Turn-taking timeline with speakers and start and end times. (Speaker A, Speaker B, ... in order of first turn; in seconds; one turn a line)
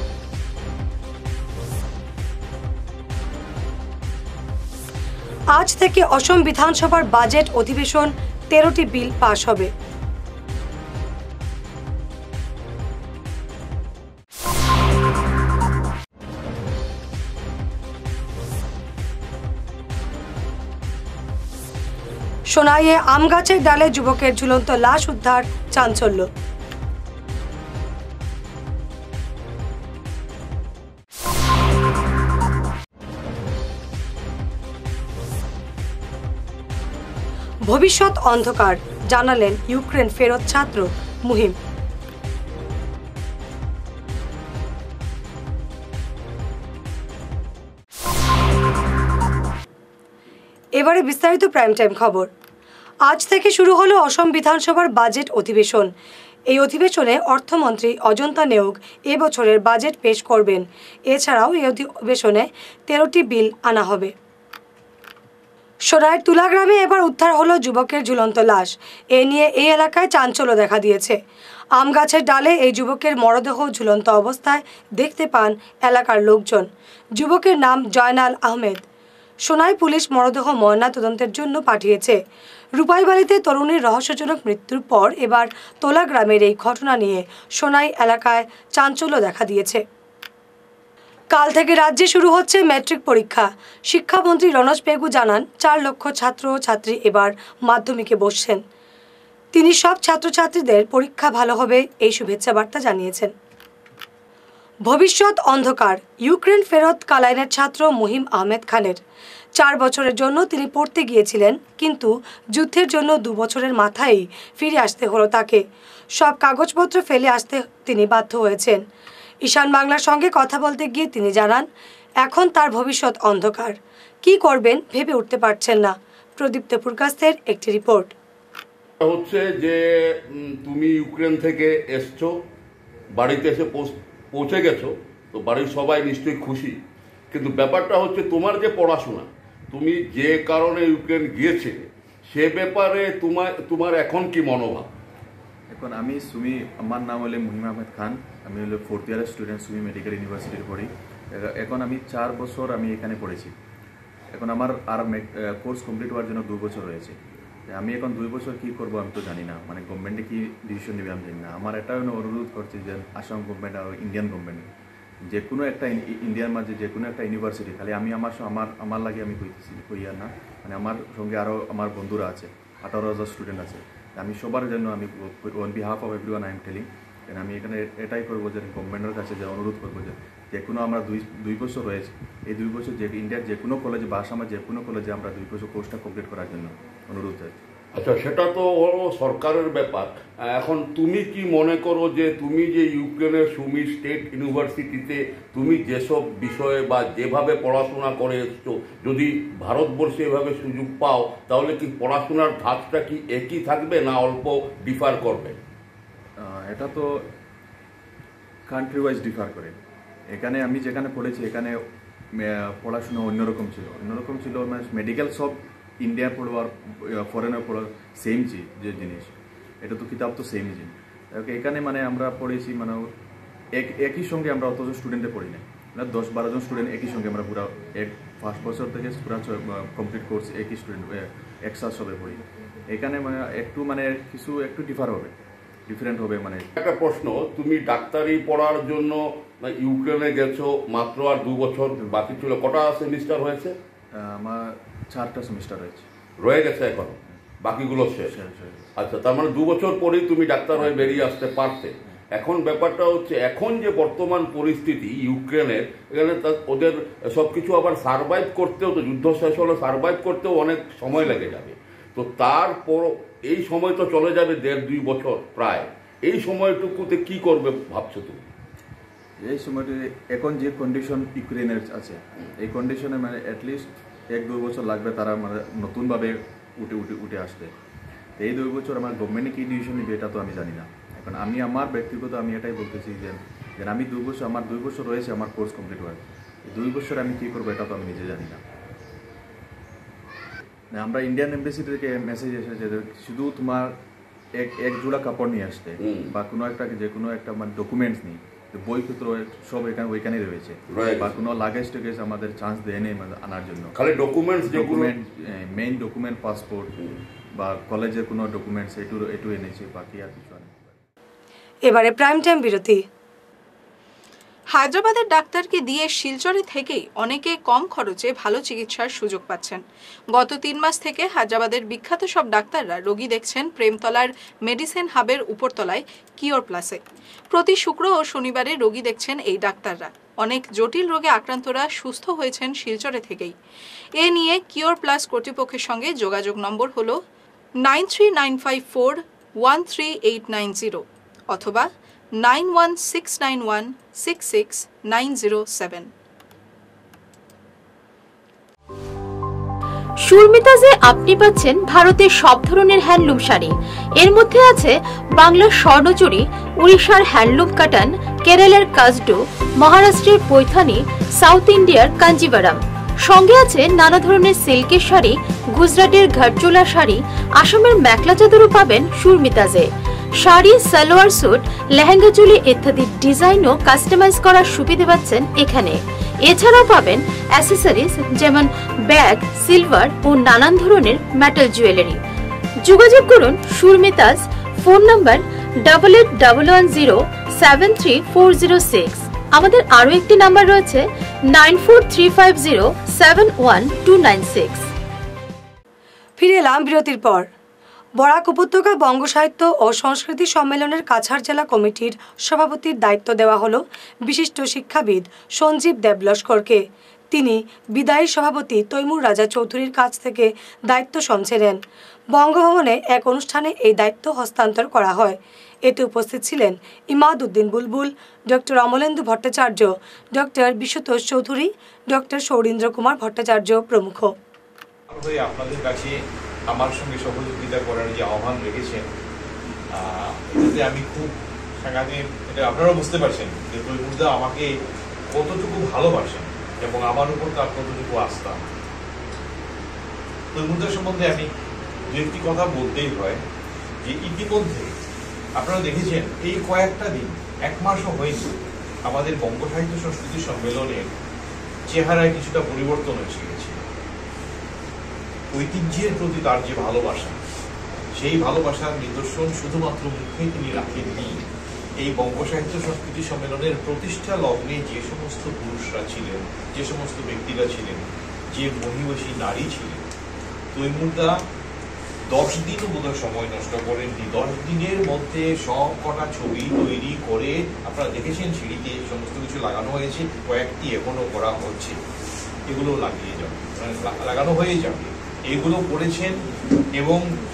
Speaker A: 5.5-9.7
Speaker A: 22.5-26.3
Speaker A: 37.7-41.5
Speaker A: 50.8-52.3
Speaker A: 53.0-55.9
Speaker A: 56.5-64.1
Speaker A: 65.9-71.2
Speaker A: 71.7-78.8
Speaker A: 79.4-82.2
Speaker A: 82.8-89.8
Speaker A: 91.3-98.6
Speaker A: 99.5-103.3
Speaker A: 104.8-109.0
Speaker A: 109.6-115.6
Speaker A: 116.2-118.8
Speaker A: 119.4-121.7
Speaker A: 122.2-128.1
Speaker B: 129.0-129.8
Speaker B: 130.3-132.3
Speaker B: 133.1-136.8
Speaker B: 137.3-144.9
Speaker C: 145.7-153.5
Speaker C: 154.3-157.2
Speaker C: 157.7-164.7
Speaker C: 165.3-187.6
Speaker B: 187.9-205.6
Speaker C: 206.4-207.2
Speaker C: 208.7-209.8
Speaker C: 210.3-211.8
Speaker C: 212.4-223.1
Speaker C: 223.7-235.3
Speaker C: 235.9-236.7
Speaker B: 236.8-243.7
Speaker C: 242.0-242.4
Speaker C: 244.1-246.1
Speaker B: 246.4-248.3
Speaker C: 248.2-248.9
Speaker B: 249.0-268.4
Speaker C: 250.8-251.3
Speaker C: 269.4-277.7
Speaker C: 278.4-288.6
Speaker C: 290.9-293.9
Speaker C: 294.6-303.9
Speaker B: 296.0-296.3
Speaker B: 300.9-301.3
Speaker B: 303.9-305.1
Speaker C: 304.6-306.9
Speaker C: 307.6-311.0
Speaker A: 311.8-313.0
Speaker D: 314.7-319.8
Speaker D: 320.3-333.5
Speaker D: 334.2-337.2
Speaker D: 337.8-341.9
Speaker D: 342.4-346.1
Speaker E: 350.2-369.9
Speaker E: 370.4-382.2
Speaker E: 382.8-394.8
Speaker A: 396.4-397.5
Speaker A: 398.2-411.8
Speaker A: 412.3-424.3
Speaker F: 425.1-426.2
Speaker F: 426.7-429.1
Speaker F: 429.9-434.7
Speaker F: 435.3-438.6
Speaker F: 440.5-441.5
Speaker F: 442.1-443.4
Speaker F: 444.0-444.9
Speaker F: 445.6-448.5
Speaker F: 449.1-451.1
Speaker F: 451.9-453.8
Speaker F: 455.5-457.4
Speaker F: 458.1-461.4
Speaker F: 462.0-470.0
Speaker F: 470.7-471.3
Speaker F: 472.3-482.0
Speaker F: 482.7-486.4
Speaker F: 486.9-487.4